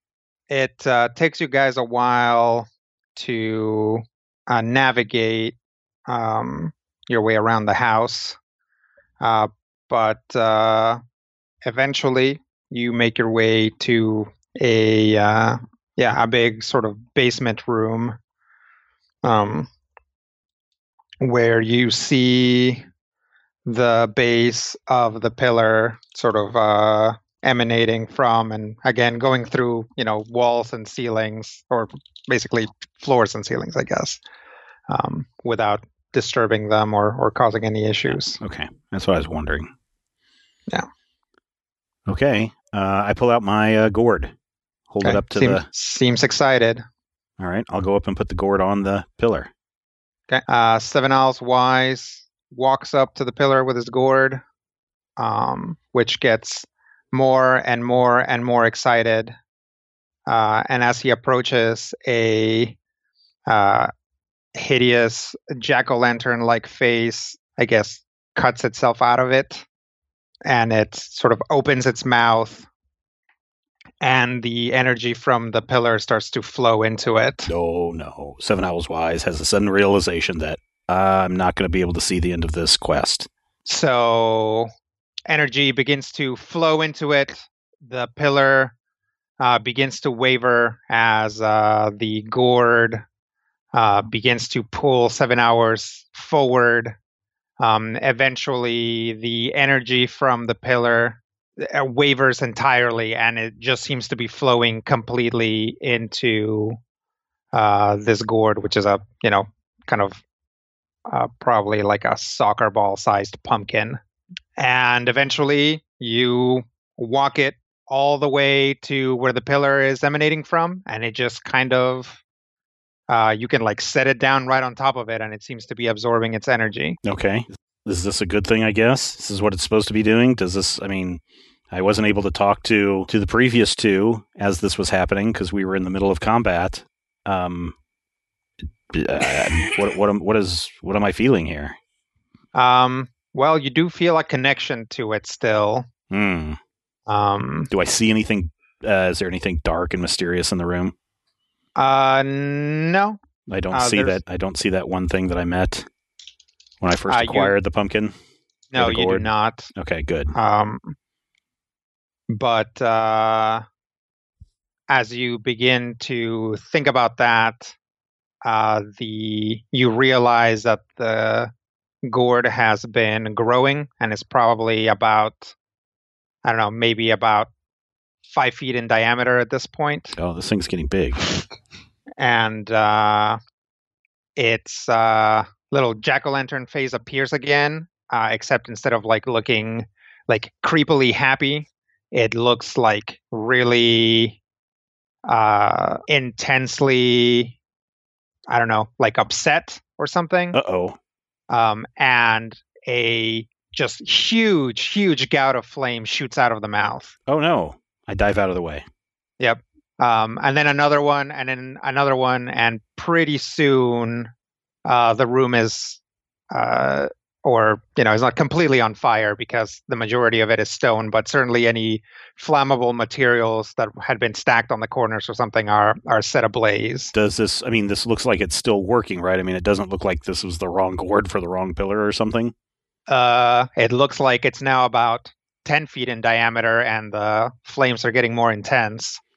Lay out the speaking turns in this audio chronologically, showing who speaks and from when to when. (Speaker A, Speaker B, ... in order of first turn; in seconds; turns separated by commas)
Speaker A: 0.5-5.5, Speaker A: 6.1-8.4, Speaker A: 9.2-11.0, Speaker A: 11.6-18.2, Speaker A: 19.2-19.7, Speaker A: 21.2-22.8, Speaker A: 23.7-34.2, Speaker A: 34.9-38.4, Speaker B: 38.4-39.7, Speaker B: 42.1-44.3, Speaker B: 44.9-45.7, Speaker A: 45.0-46.8, Speaker B: 47.4-49.5, Speaker A: 50.3-54.4, Speaker A: 55.2-59.3, Speaker A: 60.3-62.8, Speaker A: 63.5-63.9, Speaker A: 64.6-69.7, Speaker A: 70.5-72.7, Speaker A: 74.0-77.5, Speaker B: 77.5-83.3, Speaker A: 83.7-84.7, Speaker A: 85.3-88.7, Speaker A: 89.4-93.0, Speaker A: 93.7-97.0, Speaker A: 97.6-106.8, Speaker A: 107.5-110.2, Speaker A: 111.1-114.0, Speaker A: 114.6-122.2, Speaker A: 123.1-127.0, Speaker B: 127.0-137.7, Speaker B: 138.9-141.8, Speaker A: 142.5-145.9, Speaker B: 146.1-146.6, Speaker A: 147.1-147.7, Speaker B: 147.7-150.9, Speaker A: 151.8-153.2, Speaker B: 153.5-155.9, Speaker A: 153.7-154.2, Speaker B: 156.8-158.1, Speaker A: 157.1-157.5, Speaker A: 158.7-159.7, Speaker B: 158.7-160.3, Speaker A: 160.3-161.0, Speaker A: 162.3-163.6, Speaker A: 164.9-167.7, Speaker A: 168.4-171.5, Speaker A: 172.0-175.5, Speaker A: 176.4-177.5, Speaker A: 178.3-180.2, Speaker B: 180.2-181.2, Speaker A: 182.2-183.4, Speaker A: 184.4-194.4, Speaker A: 195.2-197.6, Speaker A: 198.5-200.6, Speaker B: 200.5-201.0, Speaker A: 201.5-207.2, Speaker B: 207.3-208.8, Speaker A: 209.4-214.3, Speaker A: 214.8-216.0, Speaker A: 216.5-227.1, Speaker B: 227.1-232.5, Speaker A: 233.1-239.2